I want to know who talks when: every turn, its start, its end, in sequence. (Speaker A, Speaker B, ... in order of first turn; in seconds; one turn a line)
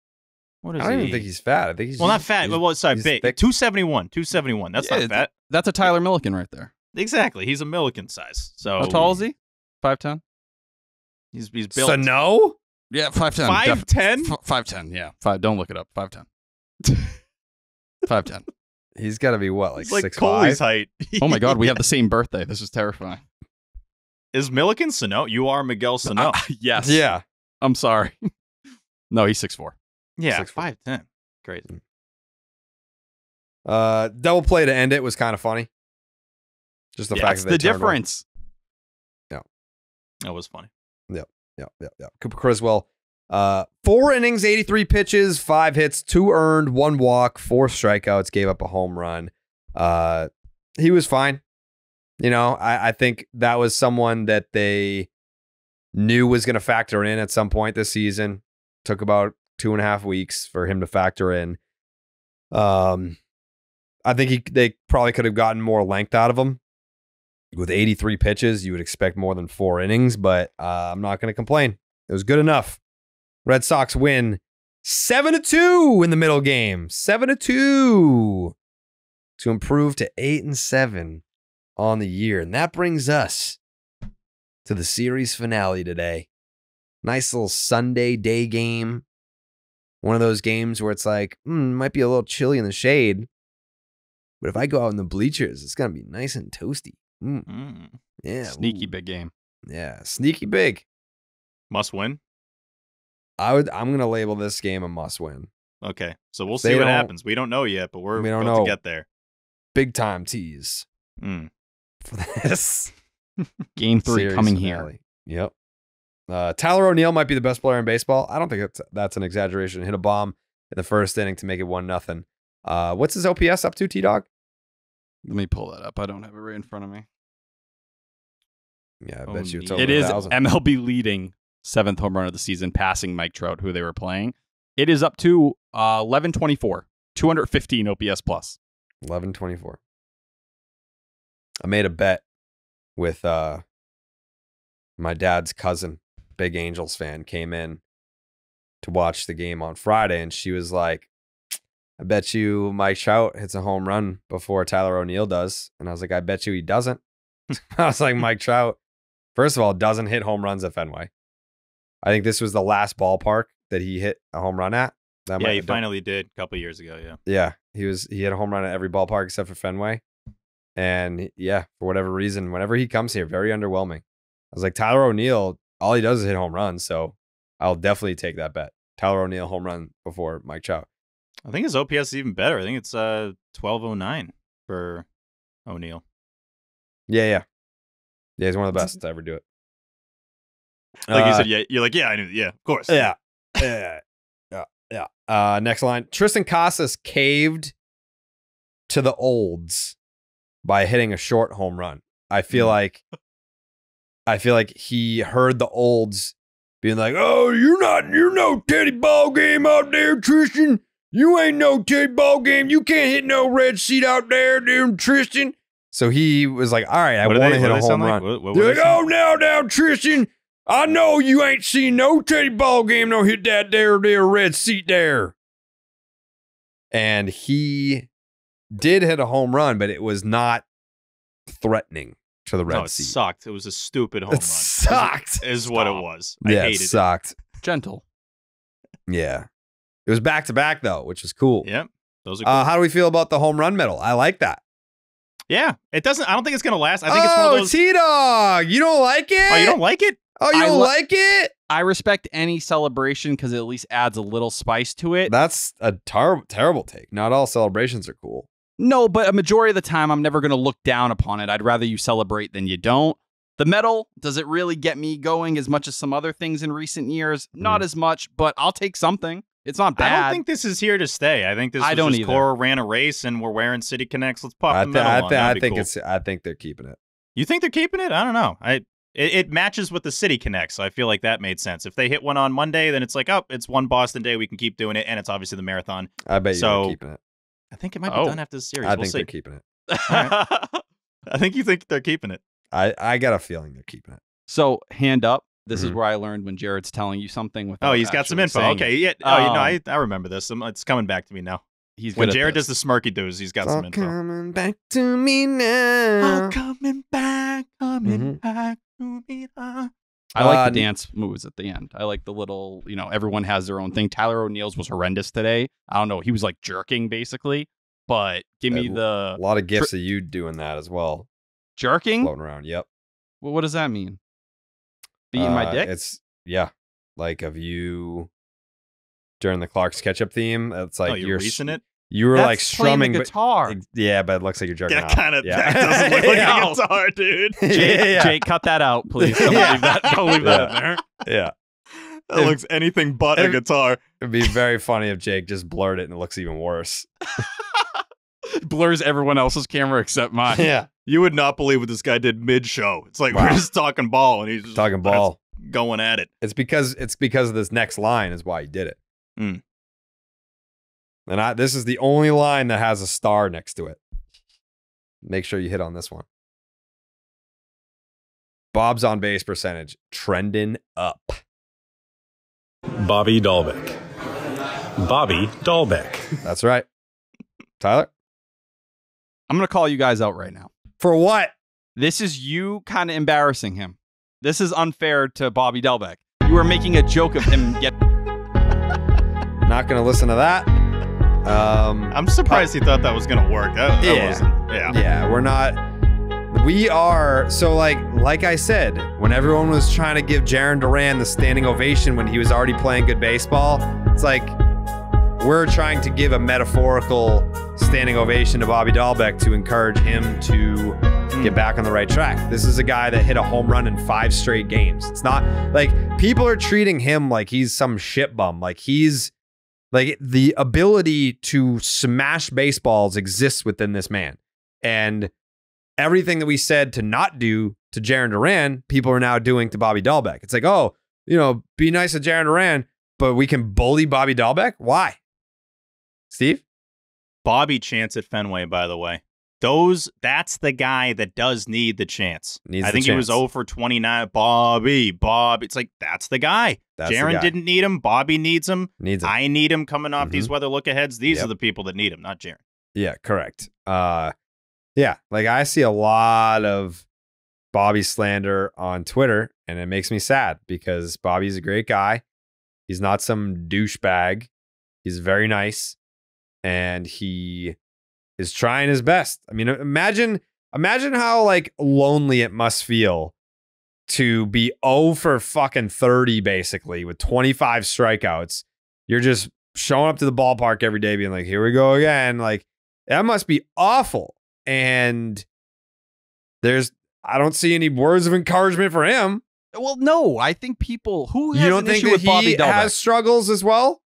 Speaker A: 0.6-1.2
Speaker B: 0.8-3.4
Speaker A: 2.0-5.3
Speaker C: 4.8-6.7
Speaker A: 6.9-9.1
Speaker C: 8.8-10.2
Speaker A: 11.3-12.1
Speaker B: 11.8-12.6
Speaker C: 12.9-16.2
Speaker A: 13.4-14.3
Speaker C: 16.9-17.1
Speaker C: 18.1-18.4
Speaker B: 18.9-20.6
Speaker A: 19.8-21.8
Speaker C: 21.2-23.2
Speaker A: 24.3-26.4
Speaker C: 26.1-27.0
Speaker B: 26.8-27.2
Speaker C: 27.6-28.3
Speaker C: 29.1-29.8
Speaker A: 30.2-31.7
Speaker B: 30.3-30.6
Speaker B: 33.6-35.7
Speaker B: 36.9-38.0
Speaker C: 37.1-38.2
Speaker A: 40.2-40.7
Speaker B: 41.1-51.4
Speaker B: 52.2-55.1
Speaker B: 55.9-61.6
Speaker B: 62.5-63.2
Speaker B: 64.0-66.6
Speaker B: 67.5-72.8
Speaker B: 73.4-78.5
Speaker B: 79.4-81.2
Speaker B: 81.8-83.6
Speaker B: 84.6-86.3
Speaker B: 87.0-89.0
Speaker B: 90.0-93.3
Speaker B: 94.4-97.5
Speaker A: 97.5-98.0
Speaker B: 98.2-98.9
Speaker C: 98.5-99.3
Speaker B: 99.7-100.8
Speaker A: 101.7-102.2
Speaker B: 103.4-105.5
Speaker A: 105.8-109.0
Speaker B: 106.6-107.1
Speaker B: 108.2-108.7
Speaker B: 109.7-110.8
Speaker A: 111.2-111.5
Speaker B: 112.0-112.9
Speaker C: 113.8-114.9
Speaker B: 114.0-115.5
Speaker B: 116.3-124.3
Speaker C: 125.2-127.0
Speaker B: 129.0-130.3
Speaker A: 129.3-130.2
Speaker C: 129.8-138.6
Speaker B: 139.0-139.8
Speaker B: 141.6-142.2
Speaker B: 143.0-143.6
Speaker B: 145.0-147.8
Speaker B: 148.8-151.1
Speaker B: 152.0-157.0
Speaker B: 157.7-158.8
Speaker B: 159.3-161.1
Speaker B: 162.0-165.8
Speaker A: 165.4-167.2
Speaker B: 167.3-170.0
Speaker B: 170.8-180.9
Speaker A: 181.5-185.1
Speaker A: 185.7-186.0
Speaker B: 187.1-187.4
Speaker B: 188.4-189.4
Speaker B: 191.1-191.5
Speaker A: 191.1-193.1
Speaker B: 192.9-194.0
Speaker B: 194.5-197.7
Speaker B: 198.9-199.9
Speaker B: 200.6-203.0
Speaker B: 204.3-225.3
Speaker A: 217.2-219.0
Speaker B: 226.9-228.1
Speaker B: 228.7-230.6
Speaker B: 231.5-233.1
Speaker A: 232.7-237.0
Speaker B: 234.3-237.3
Speaker C: 237.6-238.0
Speaker B: 239.1-239.5
Speaker B: 240.1-241.7
Speaker A: 241.6-242.7
Speaker B: 242.4-244.6
Speaker A: 245.5-247.7
Speaker B: 247.1-249.8
Speaker A: 249.5-250.2
Speaker B: 250.4-251.5
Speaker C: 250.5-250.9
Speaker C: 251.7-255.3
Speaker B: 255.3-258.5
Speaker C: 258.8-270.4
Speaker A: 270.0-275.9
Speaker C: 271.8-272.4
Speaker B: 274.7-277.0
Speaker A: 277.4-287.0
Speaker B: 286.2-287.2
Speaker A: 287.7-289.3
Speaker C: 288.1-288.4
Speaker B: 288.8-289.6
Speaker C: 289.9-290.8
Speaker A: 290.1-290.4
Speaker A: 291.3-292.4
Speaker B: 292.7-294.2
Speaker C: 294.5-299.8
Speaker B: 295.7-296.0
Speaker A: 297.8-301.6
Speaker C: 302.0-302.6
Speaker A: 302.1-304.1
Speaker B: 303.6-306.5
Speaker A: 306.2-309.9
Speaker B: 308.0-308.4
Speaker C: 310.3-319.9
Speaker B: 310.4-310.9
Speaker B: 318.7-321.3
Speaker C: 321.8-322.3
Speaker B: 322.2-322.9
Speaker C: 323.4-324.2
Speaker C: 325.3-325.9
Speaker B: 325.4-328.3
Speaker B: 329.4-336.8
Speaker A: 331.0-331.8
Speaker C: 332.3-333.8
Speaker A: 334.9-337.8
Speaker B: 337.6-338.4
Speaker C: 337.7-341.0
Speaker B: 339.2-339.9
Speaker A: 339.4-340.9
Speaker B: 340.4-341.5
Speaker A: 342.3-344.0
Speaker B: 344.2-347.1
Speaker C: 348.6-350.6
Speaker B: 350.5-350.9
Speaker A: 351.1-356.3
Speaker B: 353.3-353.6
Speaker B: 354.7-355.4
Speaker B: 356.4-359.0
Speaker B: 361.3-364.0
Speaker B: 365.2-366.2
Speaker B: 368.7-371.4
Speaker D: 373.0-373.9
Speaker D: 375.0-376.2
Speaker B: 376.4-376.9
Speaker B: 377.8-378.1
Speaker C: 379.5-380.7
Speaker B: 381.0-381.5
Speaker C: 381.9-388.0
Speaker B: 389.6-390.7
Speaker B: 391.4-392.7
Speaker A: 392.1-394.9
Speaker B: 394.0-395.8
Speaker B: 396.5-404.6
Speaker B: 405.4-419.3
Speaker B: 419.9-425.3
Speaker B: 426.0-435.2
Speaker B: 436.3-436.6
Speaker A: 437.4-452.6
Speaker B: 442.7-443.4
Speaker B: 447.0-447.5
Speaker B: 449.0-449.3
Speaker B: 450.2-450.5
Speaker B: 452.9-454.3
Speaker B: 454.9-457.0
Speaker B: 457.7-462.2
Speaker B: 462.9-464.5
Speaker B: 465.0-465.9
Speaker B: 466.6-467.8
Speaker B: 468.4-473.3
Speaker B: 474.1-485.4
Speaker B: 486.6-489.4
Speaker C: 489.7-492.9
Speaker B: 491.5-494.0